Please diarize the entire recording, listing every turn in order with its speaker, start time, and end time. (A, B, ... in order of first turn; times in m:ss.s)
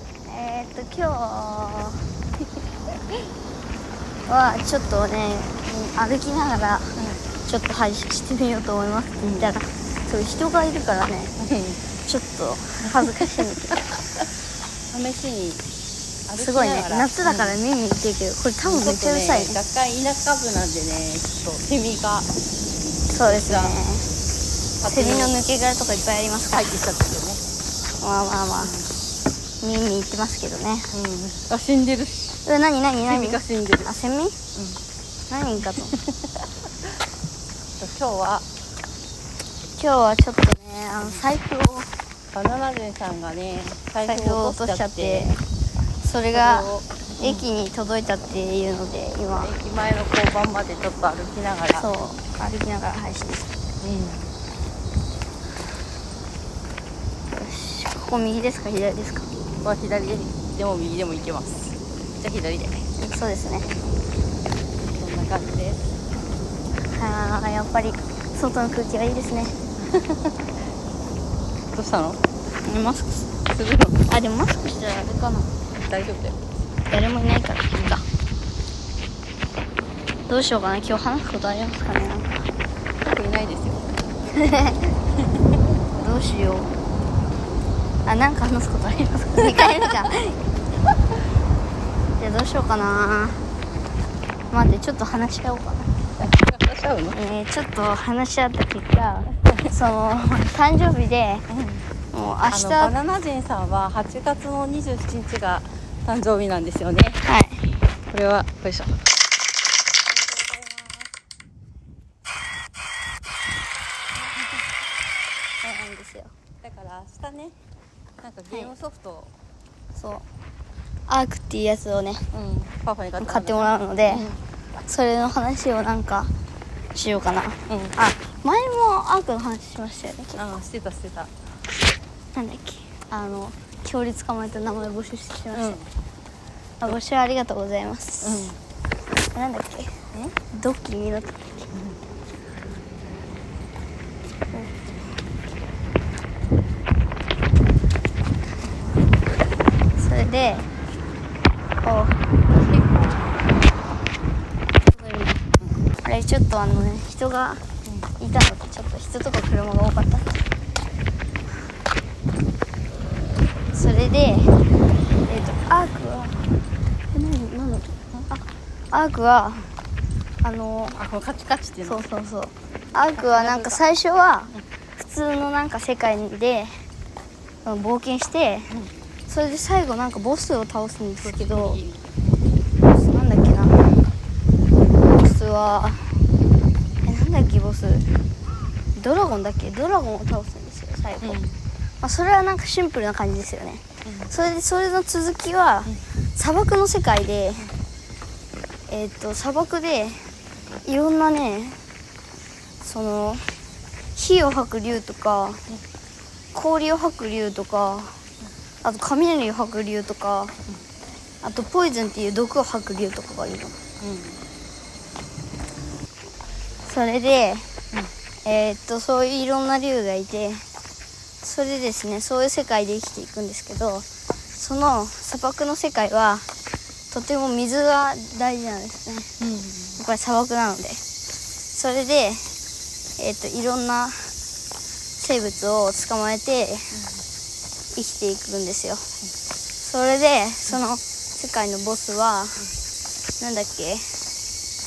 0:00.3-0:02.0 A
0:04.3-0:11.3 A
0:07.0-0:07.2 B
0:09.2-0:09.5 B
0:11.4-0:11.8 B
0:12.0-0:13.8 A
0:12.8-0:13.8 B
0:14.9-0:15.6 B
0:16.3-0:17.6 B
0:16.4-0:19.6 A
0:18.6-0:22.3 B
0:23.1-0:24.1 A
0:23.2-0:23.8 B
0:24.8-0:25.3 B
0:24.9-0:26.7 A
0:26.5-0:27.4 B
0:28.0-0:28.7 A
0:28.6-0:29.0 B
0:29.6-0:30.9 A
0:30.9-0:32.4 B
0:32.4-0:34.4 A
0:33.0-0:34.0 B
0:35.3-0:36.0 A
0:35.8-0:36.1 B
0:37.8-0:38.4 B
0:39.8-0:41.9 A
0:42.3-0:45.3 B
0:44.0-0:45.4 A
0:46.0-0:46.7 A
0:46.3-0:47.4 B
0:47.2-0:49.5 A
0:49.4-0:51.9 B
0:51.7-0:53.5 A
0:53.8-0:54.3 B
0:57.3-0:59.3 A
0:59.6-1:02.8 B
1:03.0-1:03.7 A
1:04.9-1:05.8 B
1:06.9-1:09.6 A
1:09.8-1:10.4 B
1:11.7-1:12.2 B
1:12.6-1:13.3 A
1:13.5-1:14.1 B
1:14.1-1:15.5 A
1:15.8-1:16.4 B
1:16.9-1:18.0 A
1:20.3-1:22.3 A
1:23.0-1:23.9 B
1:24.3-1:24.9 A
1:26.0-1:26.7 A
1:28.0-1:30.4 A
1:29.5-1:30.1 B
1:32.2-1:33.4 A
1:34.5-1:35.9 A
1:36.2-1:37.2 B
1:37.1-1:41.4 A
1:41.5-1:41.9 B
1:42.1-1:42.9 A
1:42.5-1:47.2 B
1:47.2-1:47.7 A
1:48.1-1:49.0 B
1:50.2-1:51.0 B
1:55.6-1:56.3 A
1:56.6-1:57.5 B
1:58.2-1:59.3 B
1:59.9-2:00.2 A
2:01.1-2:02.2 A
2:02.3-2:04.4 B
2:03.2-2:04.3 A
2:04.9-2:06.3 A
2:06.9-2:10.5 A
2:07.7-2:08.0 B
2:10.4-2:11.3 B
2:12.3-2:15.8 A
2:15.5-2:15.9 B
2:16.8-2:18.5 A
2:18.2-2:18.6 B
2:19.3-2:19.9 A
2:20.5-2:21.7 A
2:30.0-2:30.7 A
2:31.8-2:32.2 A
2:32.5-2:33.4 B
2:34.8-2:35.4 A
2:36.0-2:37.6 A
2:38.2-2:40.4 A
2:43.7-2:44.5 A
2:45.3-2:46.4 A
2:47.1-2:49.7 A
2:50.4-2:51.0 A
2:50.9-2:52.0 B
2:51.8-2:56.7 A
2:53.1-2:53.8 B
2:57.6-2:58.7 A
2:59.3-3:01.8 A
3:01.2-3:02.1 B
3:02.8-3:03.9 A
3:05.1-3:06.2 A
3:07.0-3:08.1 A
3:08.9-3:11.4 A
3:11.2-3:11.6 B
3:12.0-3:17.7 A
3:14.0-3:14.3 B
3:18.9-3:20.2 A
3:20.8-3:21.8 A
3:22.8-3:23.6 A
3:24.1-3:25.6 A
3:26.5-3:28.2 A
3:28.8-3:30.6 A
3:31.4-3:33.8 A
3:34.0-3:34.4 B
3:36.8-3:37.7 A
3:38.4-3:40.6 A
3:41.4-3:46.5 A
3:47.1-3:49.3 A
3:49.4-3:50.0 B
3:50.0-3:51.0 A
3:51.7-3:52.5 A
3:53.2-3:54.3 A
3:55.2-3:56.9 A
3:57.9-3:59.0 A
3:59.8-4:02.6 A
4:03.4-4:04.1 A